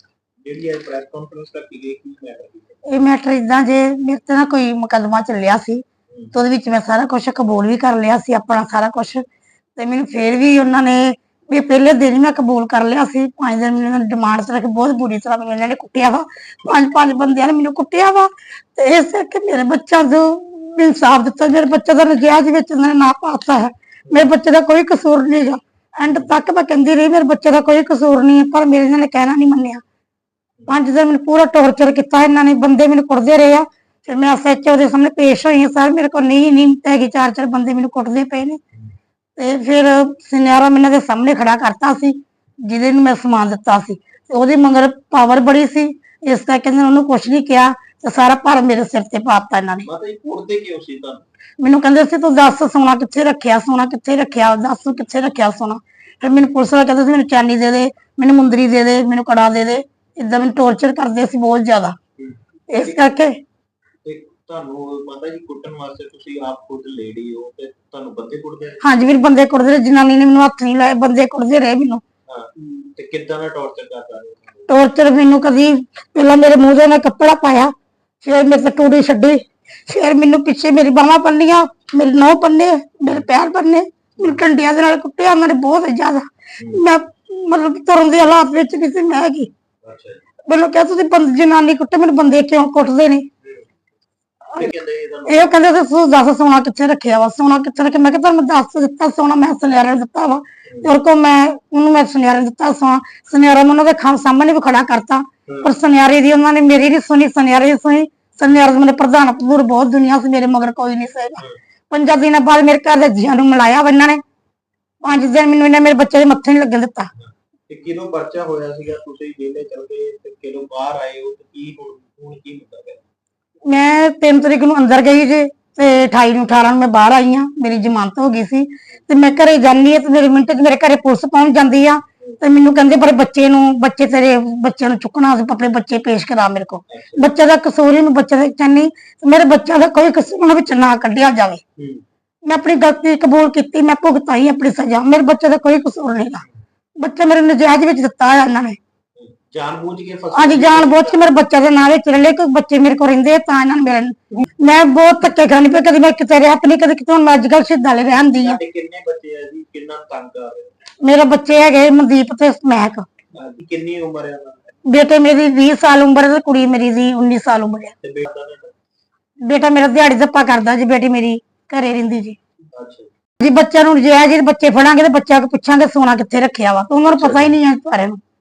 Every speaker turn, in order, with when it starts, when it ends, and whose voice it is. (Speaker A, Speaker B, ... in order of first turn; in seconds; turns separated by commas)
Speaker A: 0.4-2.8, Speaker B: 2.9-9.2, Speaker A: 6.1-6.3, Speaker B: 9.8-29.8, Speaker B: 30.7-38.6, Speaker B: 39.4-49.9, Speaker A: 49.8-51.2, Speaker B: 51.6-62.0, Speaker A: 62.2-63.1, Speaker B: 62.7-63.4, Speaker A: 64.0-68.8, Speaker B: 68.8-72.0, Speaker A: 72.3-74.7, Speaker B: 74.7-89.5, Speaker A: 89.8-90.2, Speaker B: 90.5-93.2, Speaker A: 94.5-95.6, Speaker B: 95.2-114.2, Speaker A: 100.7-100.9, Speaker B: 115.0-117.1, Speaker A: 117.2-123.0, Speaker B: 123.7-141.6, Speaker A: 136.9-137.3, Speaker A: 141.8-142.0, Speaker B: 142.4-146.4, Speaker B: 147.0-148.8, Speaker A: 149.2-151.3, Speaker B: 150.3-158.6, Speaker A: 158.4-160.7, Speaker B: 161.0-163.1, Speaker A: 163.3-164.7, Speaker B: 164.8-167.9, Speaker A: 168.0-168.7, Speaker B: 169.4-172.4, Speaker A: 172.8-173.1, Speaker B: 173.4-178.2, Speaker A: 177.1-177.5